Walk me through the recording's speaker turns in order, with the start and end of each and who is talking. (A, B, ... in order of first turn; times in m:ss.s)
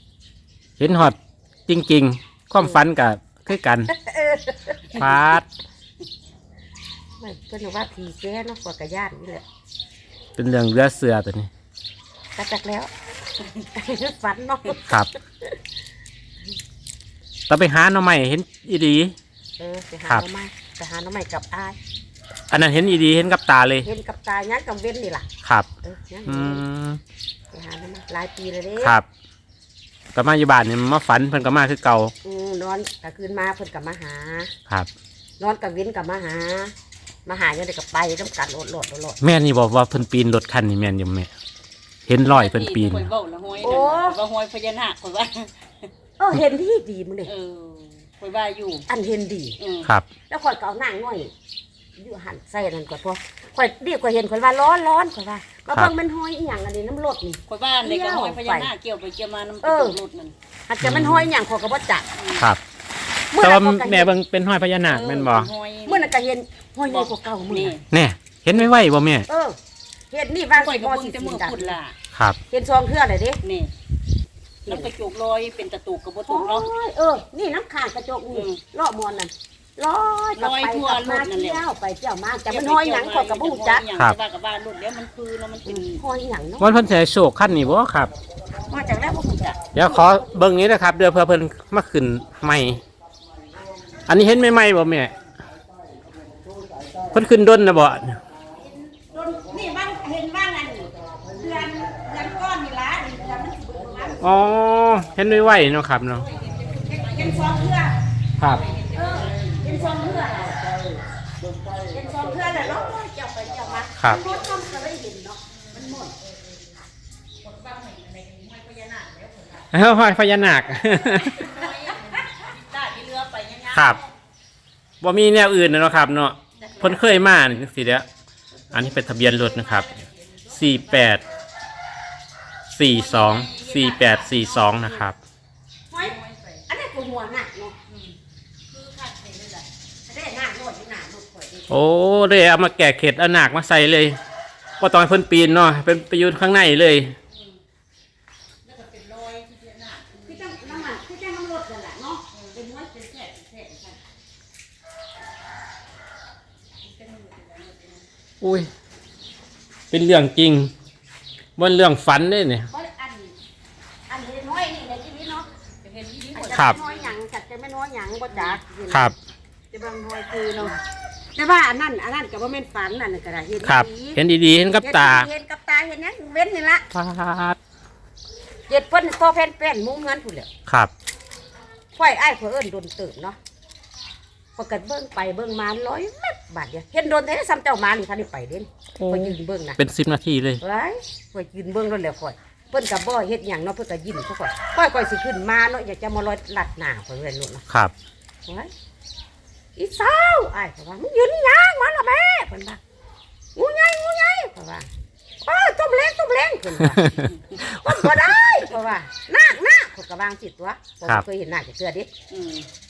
0:00.8-0:03.9 A
0:03.9-0:05.2 B
0:05.0-0:05.5 A
0:07.2-0:09.4 B
0:10.4-0:11.5 A
0:12.4-0:12.9 B
0:13.8-0:15.6 B
0:17.5-0:19.2 A
0:19.6-0:21.8 B
0:22.5-0:23.9 A
0:23.8-0:25.3 B
0:25.4-0:25.7 A
0:25.8-0:26.6 B
0:26.3-0:27.0 A
0:27.5-0:29.0 B
0:28.8-0:29.1 A
0:30.1-0:32.1 A
0:32.2-0:34.5 B
0:35.4-0:36.7 B
0:37.3-0:39.2 B
0:39.2-0:41.3 A
0:42.1-0:43.1 A
0:42.2-0:45.9 C
0:43.6-0:44.2 B
0:46.2-0:47.3 B
0:47.3-0:48.9 C
0:48.9-0:49.6 B
0:49.6-0:49.9 C
0:50.3-0:51.3 B
0:52.0-0:58.7 B
0:57.5-1:00.4 C
0:59.6-1:00.0 B
1:00.7-1:02.1 B
1:00.8-1:01.3 A
1:02.2-1:02.5 C
1:03.3-1:04.1 B
1:03.4-1:05.5 A
1:04.8-1:06.1 C
1:05.9-1:07.8 B
1:06.9-1:07.9 C
1:07.9-1:09.3 A
1:09.3-1:09.6 B
1:10.1-1:11.8 B
1:10.5-1:12.0 C
1:12.5-1:13.4 B
1:13.4-1:13.7 C
1:14.7-1:16.7 C
1:16.3-1:23.8 B
1:18.3-1:18.6 C
1:20.4-1:21.6 C
1:22.4-1:26.0 C
1:25.6-1:26.8 B
1:26.6-1:28.1 A
1:28.7-1:30.2 B
1:29.7-1:32.8 A
1:34.1-1:35.1 A
1:37.1-1:38.2 A
1:38.6-1:44.2 B
1:44.2-1:46.2 A
1:46.2-1:47.8 C
1:46.9-1:48.0 B
1:48.4-1:50.0 C
1:48.9-1:50.6 B
1:51.9-1:56.2 B
1:55.5-1:56.0 C
1:57.4-1:59.7 C
1:59.7-2:01.5 A
2:01.0-2:04.1 C
2:03.7-2:04.0 A
2:05.0-2:08.1 A
2:06.6-2:07.0 C
2:08.7-2:09.9 A
2:08.8-2:11.3 C
2:10.5-2:11.2 A
2:12.7-2:15.2 A
2:12.8-2:15.1 C
2:15.9-2:16.2 B
2:16.0-2:16.6 C
2:16.7-2:17.8 B
2:17.9-2:18.2 C
2:18.7-2:19.7 C
2:20.1-2:21.8 B
2:21.7-2:24.2 A
2:24.8-2:27.2 A
2:28.7-2:30.9 C
2:30.2-2:34.0 B
2:36.8-2:38.1 C
2:38.4-2:38.7 A
2:39.9-2:40.7 A
2:41.6-2:42.7 A
2:42.7-2:43.4 B
2:44.1-2:45.5 B
2:45.8-2:47.2 C
2:46.4-2:49.1 B
2:48.3-2:48.6 C
2:48.9-2:49.2 A
2:49.7-2:50.8 C
2:51.4-2:54.2 B
2:53.6-2:55.3 A
2:54.8-2:56.9 B
2:56.9-2:57.6 A
2:58.7-3:00.5 B
3:01.9-3:03.4 B
3:04.6-3:09.8 B
3:09.0-3:10.6 A
3:10.6-3:17.6 B
3:18.5-3:18.7 B
3:19.8-3:22.8 B
3:23.6-3:24.9 B
3:25.4-3:32.1 B
3:27.0-3:27.2 A
3:32.3-3:32.7 C